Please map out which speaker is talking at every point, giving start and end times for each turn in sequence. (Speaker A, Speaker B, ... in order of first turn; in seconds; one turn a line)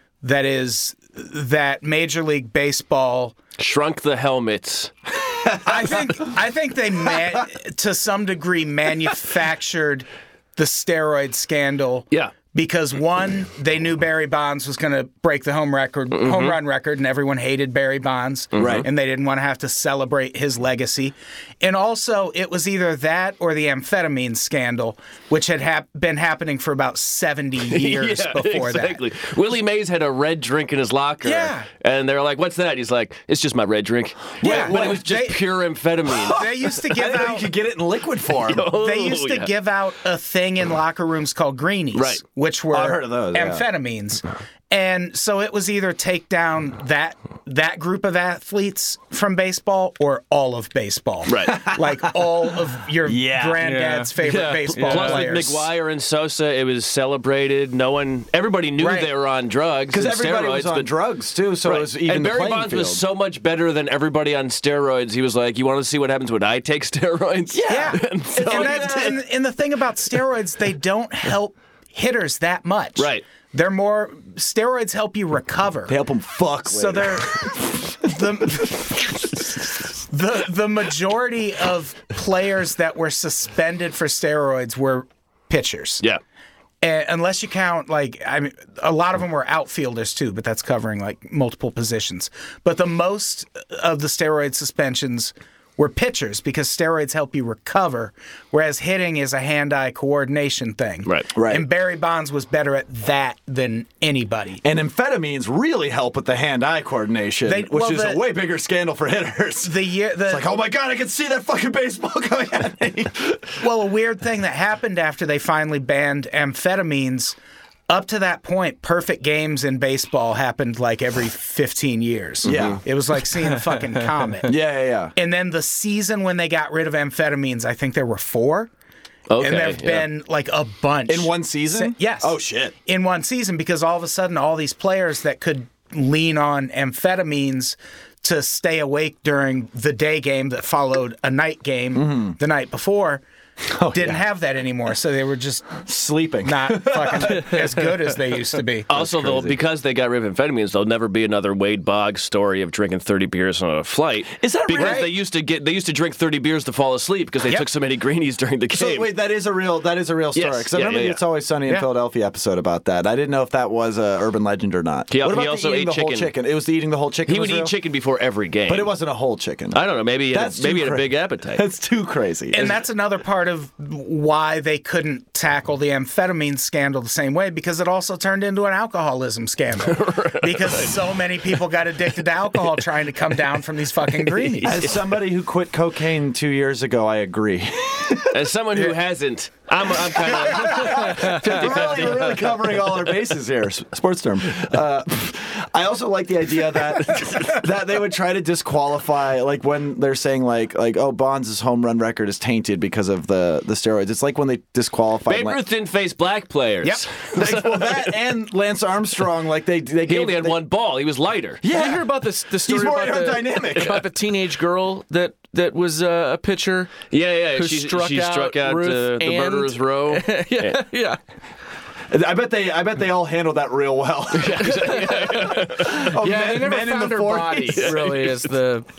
Speaker A: 0.2-3.4
Speaker B: 3.6-4.9
Speaker C: 5.2-6.3
Speaker A: 5.6-29.0
Speaker B: 16.1-16.6
Speaker B: 18.5-18.9
Speaker C: 18.6-18.9
Speaker B: 27.6-36.7
Speaker A: 31.2-31.7
Speaker C: 34.4-35.0
Speaker A: 34.4-35.5
Speaker C: 36.2-38.7
Speaker A: 36.3-37.5
Speaker B: 38.5-39.5
Speaker A: 38.7-55.7
Speaker B: 41.9-42.2
Speaker C: 42.7-43.7
Speaker B: 51.3-51.6
Speaker C: 51.5-52.3
Speaker C: 53.0-53.6
Speaker D: 53.6-55.3
Speaker B: 54.2-60.9
Speaker A: 58.8-59.1
Speaker C: 59.9-63.0
Speaker B: 61.6-69.2
Speaker C: 67.5-69.2
Speaker A: 67.7-76.0
Speaker B: 73.0-73.2
Speaker C: 75.9-78.6
Speaker A: 76.7-79.4
Speaker A: 80.1-86.0
Speaker A: 86.8-104.6
Speaker C: 101.3-101.7
Speaker C: 104.6-113.6
Speaker A: 107.5-108.2
Speaker A: 109.6-110.5
Speaker A: 113.6-117.4
Speaker A: 117.9-124.5
Speaker C: 122.4-122.8
Speaker B: 122.5-122.8
Speaker C: 124.5-125.1
Speaker A: 125.1-128.7
Speaker B: 129.3-130.1
Speaker A: 129.4-143.2
Speaker C: 131.1-132.7
Speaker C: 141.9-142.4
Speaker C: 143.7-144.3
Speaker A: 143.9-145.9
Speaker C: 145.8-147.8
Speaker A: 146.4-148.9
Speaker B: 148.9-159.1
Speaker C: 148.9-149.6
Speaker C: 154.4-155.1
Speaker A: 154.7-155.1
Speaker C: 158.7-167.7
Speaker B: 160.3-161.2
Speaker B: 165.1-166.3
Speaker B: 167.3-168.9
Speaker C: 168.7-169.8
Speaker B: 169.7-171.6
Speaker C: 170.3-172.7
Speaker A: 172.5-184.9
Speaker B: 179.8-180.9
Speaker B: 184.5-184.9
Speaker C: 184.6-188.4
Speaker B: 188.3-192.5
Speaker C: 190.1-205.6
Speaker B: 205.3-208.2
Speaker C: 207.3-210.6
Speaker B: 210.1-211.6
Speaker C: 211.6-214.1
Speaker D: 211.7-221.2
Speaker B: 217.1-220.8
Speaker C: 222.1-228.4
Speaker B: 224.3-226.1
Speaker D: 224.6-228.9
Speaker B: 227.8-228.4